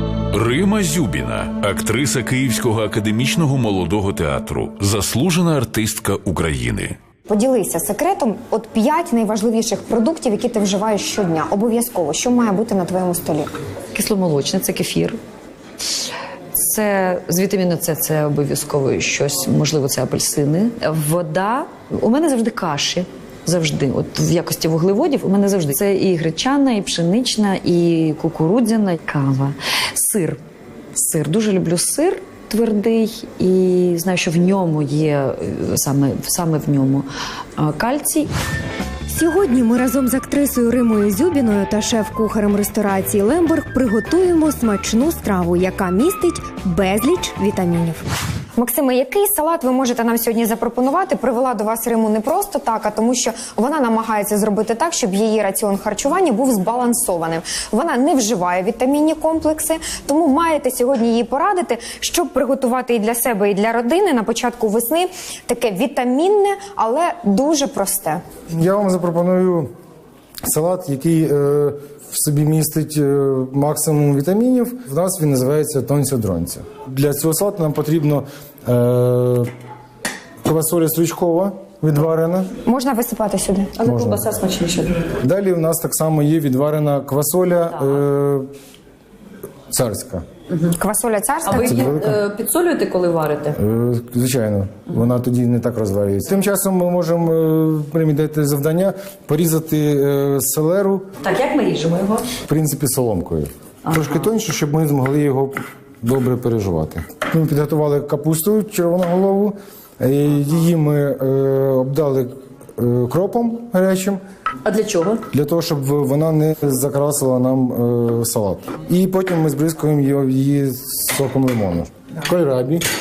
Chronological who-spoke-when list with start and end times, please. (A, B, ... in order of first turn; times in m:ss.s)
0:00.3-0:07.0 A
0:07.3-0:13.6 B
0:13.9-0:15.2 C
0:16.5-0:30.4 C
0:30.9-0:38.3 C
0:39.1-0:48.0 D
0:48.6-1:08.2 B
1:08.5-1:09.7 E
1:10.4-1:19.5 E
1:20.4-1:22.5 E
1:22.6-1:23.7 B
1:23.8-1:24.9 C
1:23.8-1:24.4 E
1:25.2-1:28.5 E
1:29.7-1:30.2 E
1:30.7-1:31.7 B
1:31.5-1:32.2 E
1:31.6-1:33.6 C
1:33.5-1:41.1 E
1:41.2-1:42.3 C
1:42.4-1:54.2 E
1:43.9-1:44.2 C
1:54.7-1:55.2 C
1:55.3-2:02.8 E